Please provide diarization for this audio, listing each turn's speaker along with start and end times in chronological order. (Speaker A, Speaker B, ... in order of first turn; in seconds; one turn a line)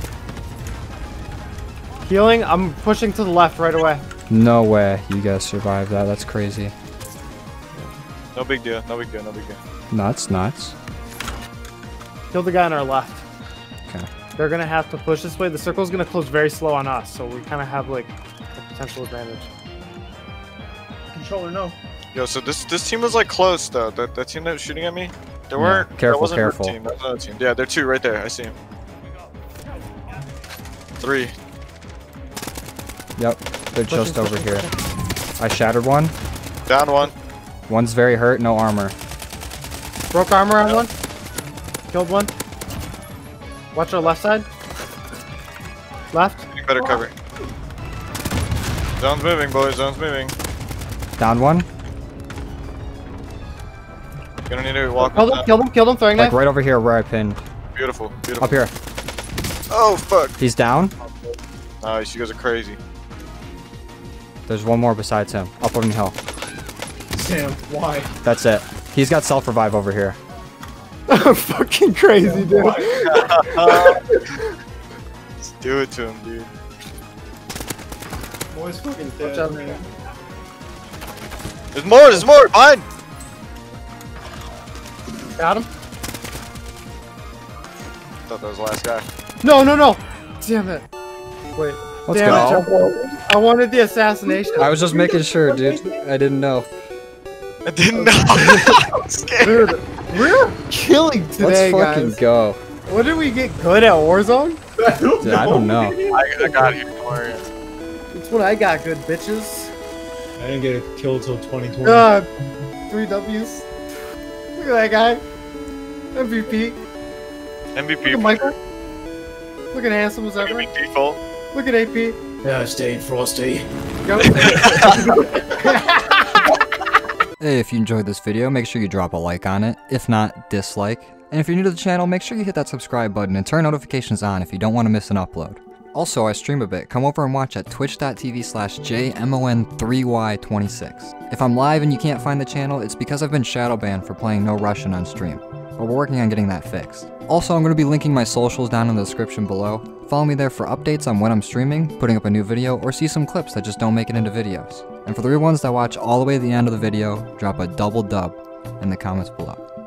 Speaker A: 2.0-4.0
Speaker B: 4.3-6.7
Speaker C: 8.3-9.6
Speaker B: 9.9-10.7
Speaker A: 12.3-13.2
Speaker A: 14.4-19.5
Speaker D: 21.1-21.8
Speaker C: 22.1-28.6
Speaker B: 25.6-26.8
Speaker C: 31.0-31.3
Speaker B: 33.2-34.7
Speaker A: 33.9-34.7
Speaker B: 35.4-36.1
Speaker C: 36.7-37.1
Speaker B: 37.7-38.9
Speaker A: 40.1-40.9
Speaker A: 41.9-42.3
Speaker A: 43.7-44.5
Speaker A: 46.1-47.0
Speaker C: 46.5-47.1
Speaker C: 49.0-50.3
Speaker B: 51.2-51.7
Speaker C: 54.5-55.5
Speaker A: 55.0-56.4
Speaker B: 56.1-57.4
Speaker C: 57.8-58.5
Speaker B: 58.4-58.7
Speaker C: 59.7-60.3
Speaker B: 60.4-60.9
Speaker C: 61.8-62.8
Speaker B: 64.5-66.2
Speaker D: 67.1-68.1
Speaker B: 68.2-70.2
Speaker A: 71.1-74.0
Speaker D: 72.2-73.5
Speaker C: 73.1-74.1
Speaker C: 75.4-76.5
Speaker D: 78.5-79.8
Speaker A: 79.2-79.8
Speaker C: 81.7-82.8
Speaker A: 85.4-85.7
Speaker C: 88.3-89.0
Speaker A: 89.4-90.9
Speaker A: 91.5-94.8
Speaker B: 92.1-92.7
Speaker B: 94.6-96.7
Speaker D: 94.7-95.8
Speaker C: 97.7-99.8
Speaker A: 97.9-98.8
Speaker A: 99.4-102.2
Speaker B: 101.4-102.6
Speaker A: 102.8-104.6
Speaker D: 104.8-106.7
Speaker B: 105.2-106.0
Speaker C: 106.1-107.5
Speaker A: 108.1-109.7
Speaker D: 110.4-112.1
Speaker A: 111.8-112.3
Speaker A: 112.9-113.7
Speaker A: 114.5-115.2
Speaker A: 116.1-116.8
Speaker C: 117.7-118.5
Speaker A: 118.0-118.5
Speaker A: 119.7-120.7
Speaker C: 120.4-121.2
Speaker A: 121.5-122.2
Speaker D: 122.4-123.7
Speaker A: 124.0-126.5
Speaker C: 124.3-125.0
Speaker D: 124.4-125.3
Speaker B: 127.4-159.6